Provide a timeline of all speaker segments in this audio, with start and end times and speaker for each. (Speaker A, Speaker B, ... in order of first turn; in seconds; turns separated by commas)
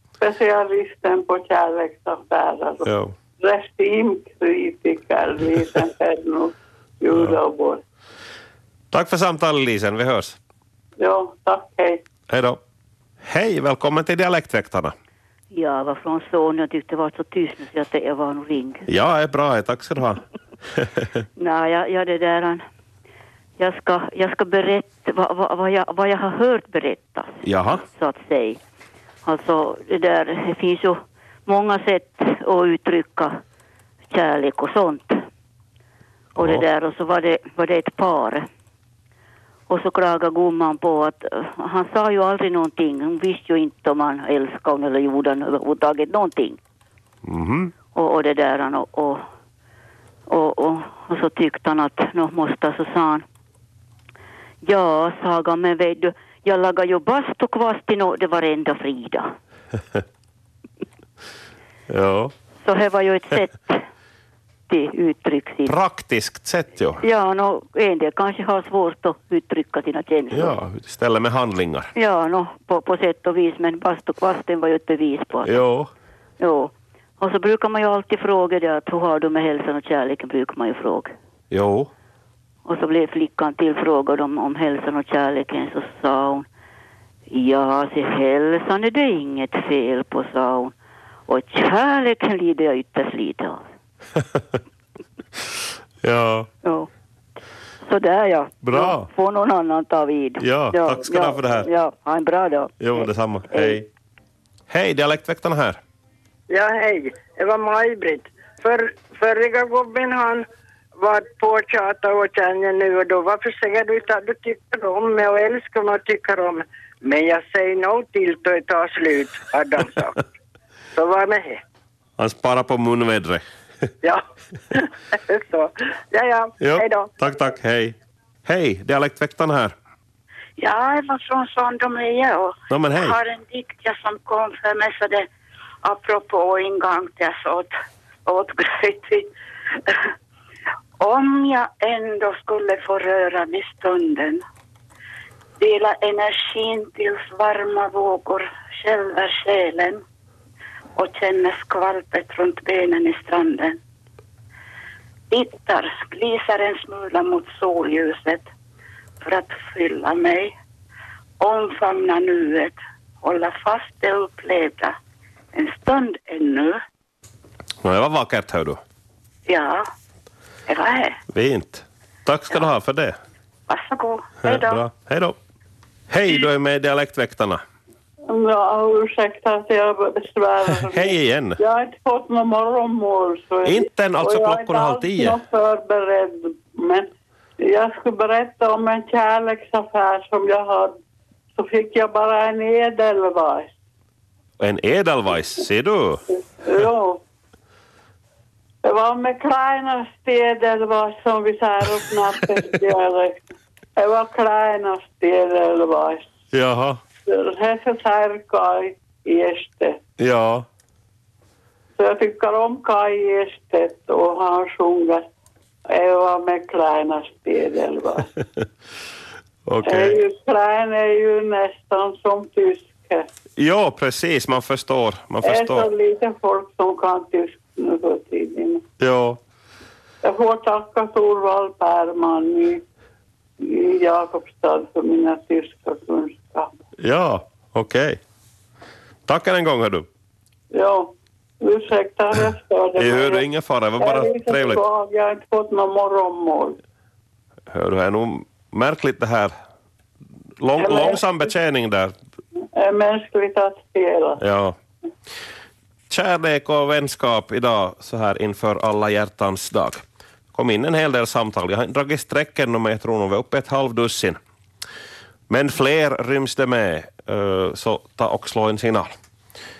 Speaker A: 0.2-2.9, Speaker B: 2.8-3.1, Speaker A: 3.4-7.8, Speaker B: 7.1-7.4, Speaker B: 8.9-10.4, Speaker A: 11.0-12.0, Speaker B: 12.3-12.6, Speaker B: 13.2-14.9, Speaker C: 15.5-18.9, Speaker B: 18.9-20.2, Speaker C: 21.4-22.6, Speaker C: 23.6-28.6, Speaker B: 27.4-27.8, Speaker C: 29.2-33.3, Speaker C: 34.1-35.1, Speaker B: 36.4-36.6, Speaker C: 36.4-38.4, Speaker C: 39.7-46.6, Speaker B: 47.2-47.7, Speaker C: 47.9-49.2, Speaker C: 50.3-53.2, Speaker C: 54.6-59.2, Speaker B: 61.9-62.3, Speaker C: 62.6-63.8, Speaker C: 64.7-65.8, Speaker B: 65.7-67.0, Speaker C: 67.0-70.6, Speaker B: 70.3-71.9, Speaker C: 71.9-75.7, Speaker B: 75.4-75.9, Speaker C: 76.4-81.1, Speaker B: 81.5-81.9, Speaker C: 82.7-86.5, Speaker C: 87.3-90.7, Speaker C: 91.3-93.6, Speaker B: 96.0-96.5, Speaker C: 96.6-96.9, Speaker C: 97.8-103.8, Speaker B: 98.6-99.1, Speaker B: 100.4-101.7, Speaker B: 102.8-103.8, Speaker B: 104.7-105.8, Speaker D: 106.5-120.2, Speaker D: 120.9-121.6, Speaker B: 122.2-123.4, Speaker D: 124.0-127.1, Speaker B: 126.6-129.7, Speaker E: 130.6-135.3, Speaker B: 132.7-133.2, Speaker E: 135.8-137.7, Speaker E: 138.2-139.3, Speaker E: 141.0-144.4, Speaker E: 145.6-150.0, Speaker E: 150.9-153.8, Speaker E: 155.3-158.5, Speaker E: 159.2-160.5, Speaker E: 161.4-165.0, Speaker E: 165.5-166.8, Speaker B: 167.8-168.8, Speaker E: 169.5-169.8, Speaker E: 170.7-171.2, Speaker B: 171.3-173.2, Speaker E: 173.7-174.8, Speaker B: 174.4-175.3, Speaker B: 176.1-177.6, Speaker A: 178.3-187.1, Speaker B: 180.9-181.6, Speaker B: 183.6-185.4, Speaker A: 187.6-190.9, Speaker A: 191.6-193.8, Speaker B: 194.6-196.2, Speaker A: 196.6-197.2, Speaker A: 198.8-203.4, Speaker A: 204.0-206.3, Speaker B: 206.5-207.0, Speaker A: 207.2-210.0, Speaker B: 210.2-210.7, Speaker A: 212.0-215.2, Speaker A: 215.9-218.3, Speaker B: 219.7-220.2, Speaker A: 219.8-223.3, Speaker B: 223.6-225.9, Speaker A: 225.4-228.8, Speaker B: 229.0-229.4, Speaker A: 230.2-232.8, Speaker A: 233.6-236.7, Speaker B: 237.0-238.2, Speaker B: 239.3-240.1, Speaker A: 240.7-243.4, Speaker B: 242.9-244.8, Speaker A: 244.0-246.8, Speaker B: 247.7-249.5, Speaker B: 250.6-252.1, Speaker A: 250.8-251.5, Speaker A: 252.7-254.4, Speaker B: 254.4-254.8, Speaker B: 256.1-260.0, Speaker B: 260.5-264.4, Speaker B: 265.5-269.1